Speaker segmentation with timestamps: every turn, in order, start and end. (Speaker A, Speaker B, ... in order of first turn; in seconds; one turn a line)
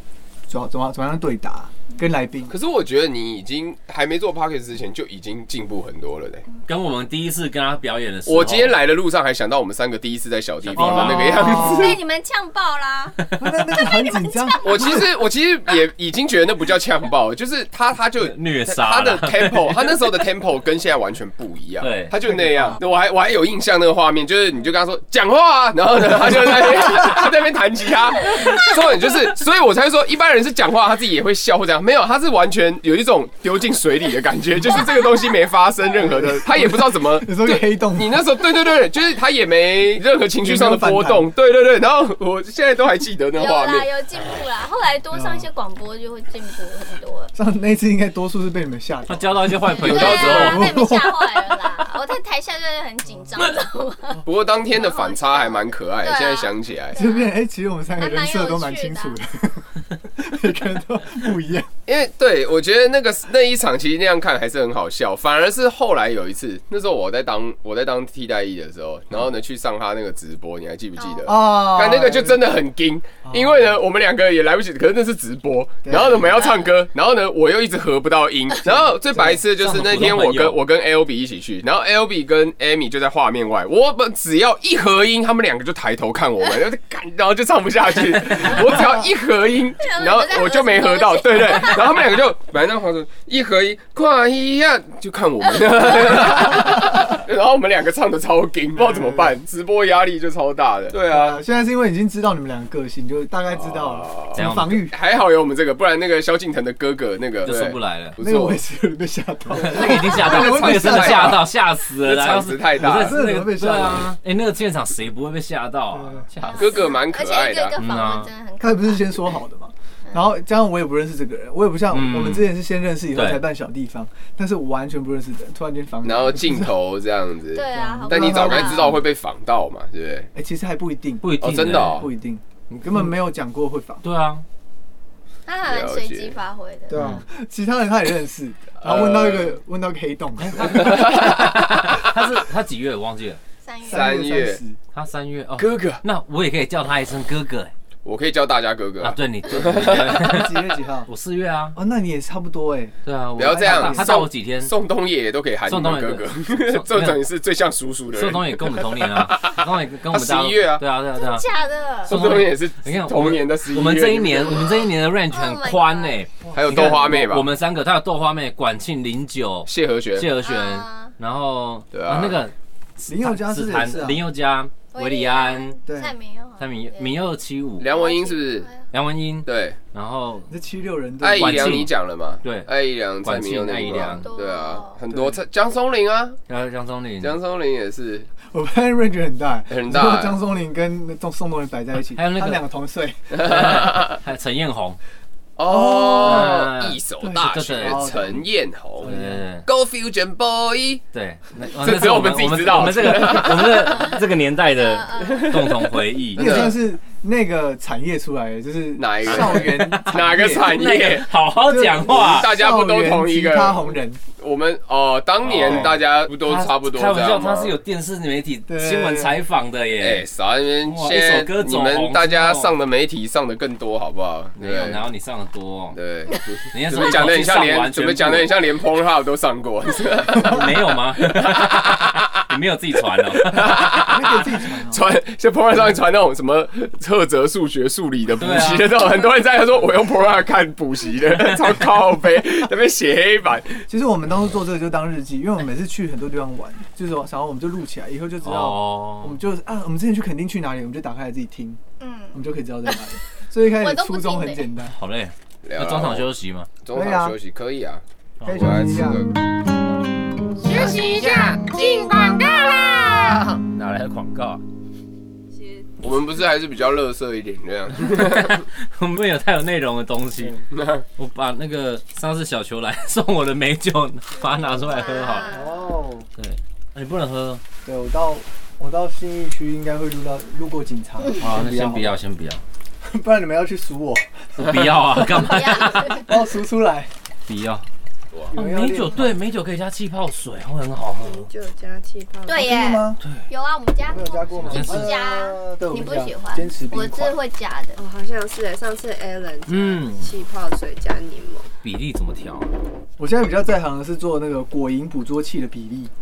Speaker A: 0.5-2.5
Speaker B: 2.5-6.5
Speaker C: 6.6-8.8
Speaker B: 8.2-12.0
Speaker C: 10.6-11.4
Speaker A: 10.7-12.0
Speaker D: 11.0-15.2
Speaker A: 13.4-15.0
Speaker B: 14.6-43.9
Speaker C: 18.2-19.8
Speaker C: 21.8-22.1
Speaker A: 22.2-22.7
Speaker A: 36.0-38.2
Speaker A: 40.4-41.3
Speaker D: 43.3-47.3
Speaker A: 45.1-45.5
Speaker A: 47.3-51.8
Speaker C: 49.1-50.7
Speaker D: 49.6-57.4
Speaker B: 49.8-50.6
Speaker B: 54.2-57.0
Speaker A: 56.9-61.7
Speaker D: 58.0-59.2
Speaker B: 61.9-101.4
Speaker D: 71.0-71.3
Speaker A: 71.2-72.5
Speaker A: 73.2-73.7
Speaker A: 75.8-76.4
Speaker A: 78.7-79.4
Speaker C: 79.5-80.6
Speaker D: 89.8-92.2
Speaker A: 98.9-99.2
Speaker A: 101.0-105.0
Speaker B: 103.5-104.4
Speaker C: 104.3-104.8
Speaker B: 104.9-108.6
Speaker C: 107.4-108.2
Speaker A: 108.2-111.5
Speaker C: 109.5-116.8
Speaker B: 109.7-113.2
Speaker A: 112.8-114.1
Speaker A: 115.9-116.2
Speaker D: 116.4-119.2
Speaker B: 116.6-117.8
Speaker C: 117.8-118.3
Speaker A: 118.6-126.8
Speaker C: 121.9-122.5
Speaker C: 123.1-123.4
Speaker B: 126.0-130.3
Speaker D: 127.5-128.9
Speaker A: 127.7-129.1
Speaker A: 130.3-134.0
Speaker C: 131.2-132.1
Speaker B: 131.4-132.1
Speaker C: 132.7-133.1
Speaker C: 134.0-134.4
Speaker D: 135.5-137.0
Speaker B: 135.6-136.4
Speaker A: 136.9-141.3
Speaker C: 136.9-137.2
Speaker B: 138.8-139.5
Speaker C: 140.4-143.4
Speaker B: 140.7-142.1
Speaker D: 143.6-144.2
Speaker A: 143.8-144.8
Speaker B: 143.9-144.6
Speaker C: 144.9-147.7
Speaker B: 145.6-146.0
Speaker B: 148.0-150.2
Speaker C: 149.0-151.8
Speaker A: 149.7-151.1
Speaker A: 151.7-154.1
Speaker C: 153.0-154.7
Speaker B: 153.4-160.8
Speaker C: 155.7-157.2
Speaker C: 158.1-161.5
Speaker D: 161.1-162.2
Speaker B: 162.0-164.8
Speaker C: 162.1-175.8
Speaker D: 165.3-166.2
Speaker A: 166.4-167.3
Speaker B: 166.5-167.5
Speaker B: 169.7-170.3
Speaker D: 170.4-171.1
Speaker B: 171.9-172.4
Speaker A: 173.1-174.2
Speaker D: 174.9-177.1
Speaker A: 175.9-176.1
Speaker C: 176.6-177.9
Speaker B: 177.8-178.7
Speaker D: 177.8-178.8
Speaker C: 178.9-180.5
Speaker B: 179.4-179.8
Speaker A: 180.5-181.9
Speaker B: 181.2-186.4
Speaker C: 181.3-184.3
Speaker D: 184.2-185.0
Speaker A: 185.1-185.4
Speaker C: 186.5-187.4
Speaker B: 187.2-188.3
Speaker A: 188.5-193.4
Speaker B: 189.7-190.4
Speaker C: 192.1-192.6
Speaker B: 193.3-194.2
Speaker C: 193.3-195.0
Speaker B: 195.6-199.1
Speaker A: 195.6-196.6
Speaker C: 196.1-198.4
Speaker A: 197.2-198.4
Speaker A: 199.0-199.4
Speaker C: 199.0-199.7
Speaker B: 199.6-201.0
Speaker C: 201.1-206.8
Speaker B: 201.8-204.0
Speaker A: 203.0-203.3
Speaker D: 203.9-205.8
Speaker B: 205.2-206.8
Speaker A: 206.3-210.9
Speaker B: 209.0-211.3
Speaker C: 209.2-212.5
Speaker A: 211.6-214.2
Speaker B: 212.1-217.8
Speaker C: 215.4-220.3
Speaker A: 215.6-216.0
Speaker A: 218.7-219.4
Speaker B: 220.0-225.1
Speaker C: 220.8-222.7
Speaker C: 224.6-226.0
Speaker B: 225.9-232.4
Speaker C: 226.7-228.5
Speaker C: 230.3-233.8
Speaker B: 233.3-243.8
Speaker A: 233.5-235.0
Speaker C: 238.4-238.9
Speaker A: 243.9-251.8
Speaker C: 248.4-249.4
Speaker D: 252.0-253.0
Speaker A: 252.3-254.9
Speaker D: 253.6-254.7
Speaker C: 254.8-256.7
Speaker B: 255.6-256.3
Speaker B: 256.8-259.3
Speaker A: 256.9-257.4
Speaker C: 258.4-258.7
Speaker A: 258.4-259.2
Speaker C: 260.6-264.6
Speaker D: 261.8-263.3
Speaker E: 265.5-266.0
Speaker B: 266.0-268.6
Speaker C: 268.0-270.6
Speaker B: 270.7-271.0
Speaker C: 271.2-275.4
Speaker E: 274.4-275.8
Speaker D: 274.7-275.8
Speaker A: 275.5-276.3
Speaker C: 276.4-277.6
Speaker A: 277.8-282.1
Speaker C: 281.4-282.6
Speaker A: 283.0-285.4
Speaker C: 284.6-286.3
Speaker D: 285.2-286.3
Speaker A: 286.1-287.1
Speaker C: 287.5-287.8
Speaker A: 288.5-289.4
Speaker C: 288.5-291.4
Speaker E: 291.2-292.7
Speaker D: 292.4-298.0
Speaker A: 292.6-293.2
Speaker A: 294.1-297.3
Speaker C: 294.7-295.1
Speaker E: 297.9-301.7
Speaker C: 299.7-300.3
Speaker C: 301.8-302.7
Speaker A: 303.2-306.1